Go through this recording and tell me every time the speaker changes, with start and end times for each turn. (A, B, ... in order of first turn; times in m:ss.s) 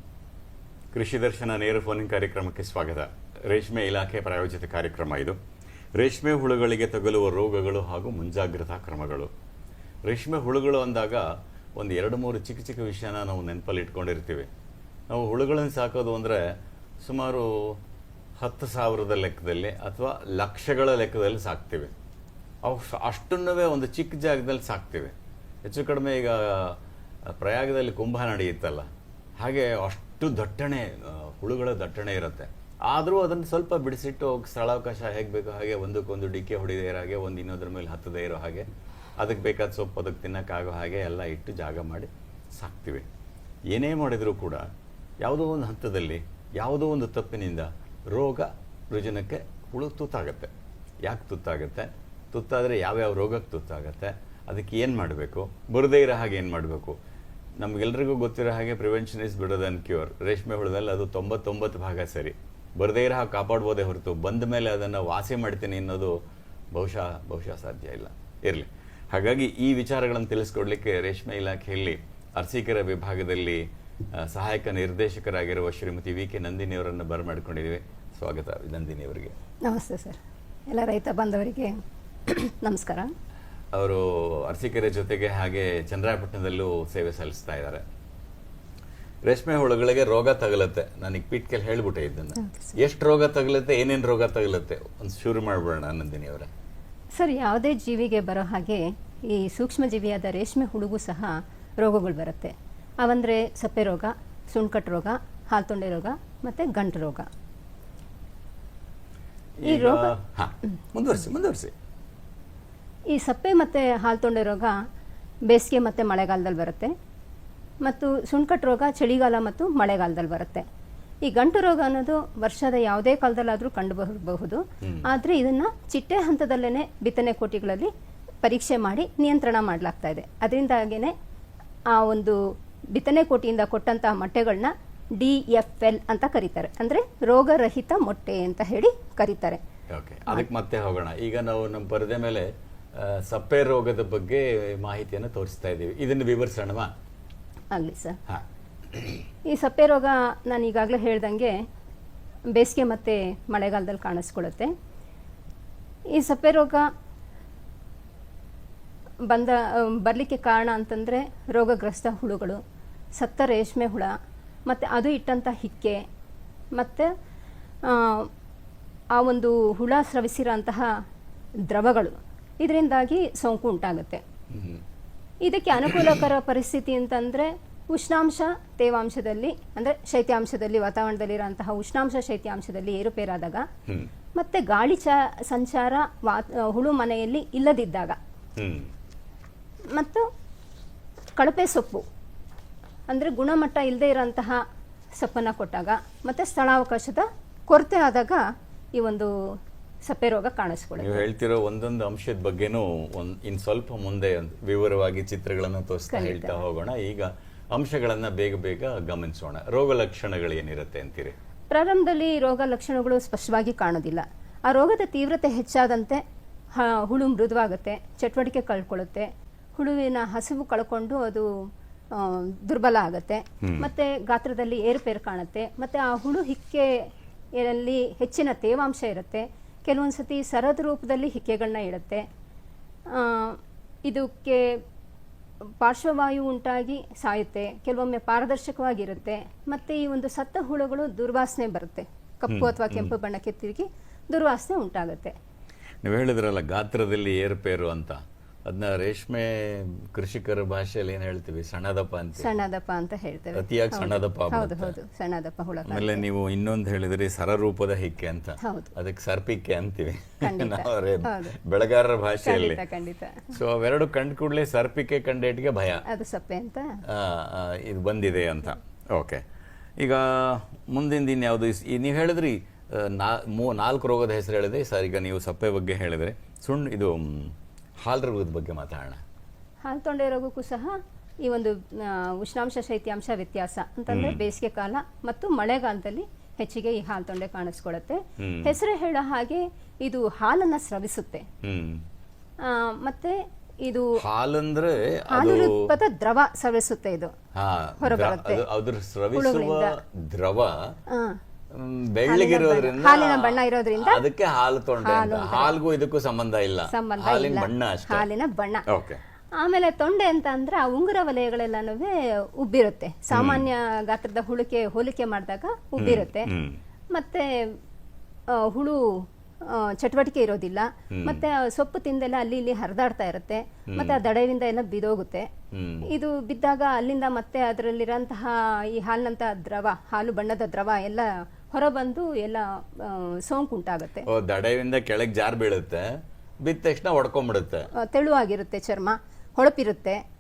0:00.9-0:05.4 A
0:06.0-0:09.3 A
0:10.0-0:14.5 A
0:15.1-0:17.8 A
0:18.4-0:21.9 A
0:22.6-0:28.9 A
0:29.4-0:43.1 A
0:43.7-0:44.7 A
0:45.2-0:50.5 A
0:51.0-0:57.0 A
0:57.6-1:06.2 A
1:06.7-1:19.3 A
1:19.6-1:23.1 B
1:23.7-1:27.8 A
1:29.2-1:36.5 A
1:32.4-1:32.8 B
1:37.2-1:47.3 B
1:49.6-1:51.7 A
1:49.7-1:50.1 B
1:53.1-1:54.8 B
1:55.5-1:56.9 B
1:57.8-2:00.7 B
2:01.2-2:07.9 B
2:08.4-2:11.1 B
2:11.9-2:12.4 B
2:12.9-2:19.6 B
2:19.9-2:26.9 A
2:27.7-2:28.2 B
2:28.3-2:29.2 A
2:29.5-2:31.6 B
2:32.5-2:34.7 B
2:36.1-2:36.9 B
2:39.3-2:42.6 B
2:43.2-2:44.1 B
2:44.7-2:46.0 B
2:46.8-2:47.1 B
2:47.8-2:48.3 B
2:49.2-2:50.9 B
2:51.7-2:54.2 B
2:54.5-2:54.8 A
2:55.4-3:03.7 B
2:55.9-2:56.2 A
3:04.4-3:08.2 B
3:08.6-3:08.9 A
3:10.0-3:10.3 B
3:11.4-3:12.0 B
3:13.1-3:14.6 B
3:15.2-3:21.2 B
3:21.0-3:31.4 A
3:26.1-3:26.6 B
3:31.7-3:36.2 B
3:36.7-3:41.5 B
3:42.1-3:47.0 B
3:43.6-3:43.9 A
3:47.6-3:52.2 B
3:53.1-3:54.8 B
3:55.8-4:05.4 B
4:02.5-4:03.1 A
4:06.0-4:12.5 A
4:12.4-4:16.2 B
4:13.5-4:14.9 A
4:15.9-4:22.8 A
4:18.6-4:18.9 B
4:20.4-4:21.6 B
4:22.4-4:23.5 B
4:23.5-4:26.0 A
4:26.1-4:27.0 B
4:27.1-4:29.4 A
4:30.0-4:39.2 A
4:39.8-4:51.5 B
4:44.1-4:44.4 A
4:48.4-4:48.8 A
4:51.6-4:52.0 A
4:52.6-4:54.2 B
4:54.2-4:55.9 A
4:55.3-4:57.3 B
4:57.6-5:01.0 A
4:58.0-4:58.6 B
4:59.4-5:00.0 B
5:01.1-5:01.4 B
5:01.7-5:08.3 A
5:02.3-5:04.2 B
5:05.0-5:05.8 B
5:06.9-5:08.8 B
5:08.9-5:09.2 A
5:09.6-5:16.5 B
5:13.3-5:13.7 A
5:16.0-5:16.8 A
5:17.1-5:17.8 B
5:18.5-5:25.5 B
5:21.1-5:21.4 A
5:23.9-5:24.2 A
5:25.7-5:26.1 A
5:26.1-5:34.3 B
5:34.3-5:36.1 A
5:36.6-5:37.9 A
5:38.0-5:40.2 B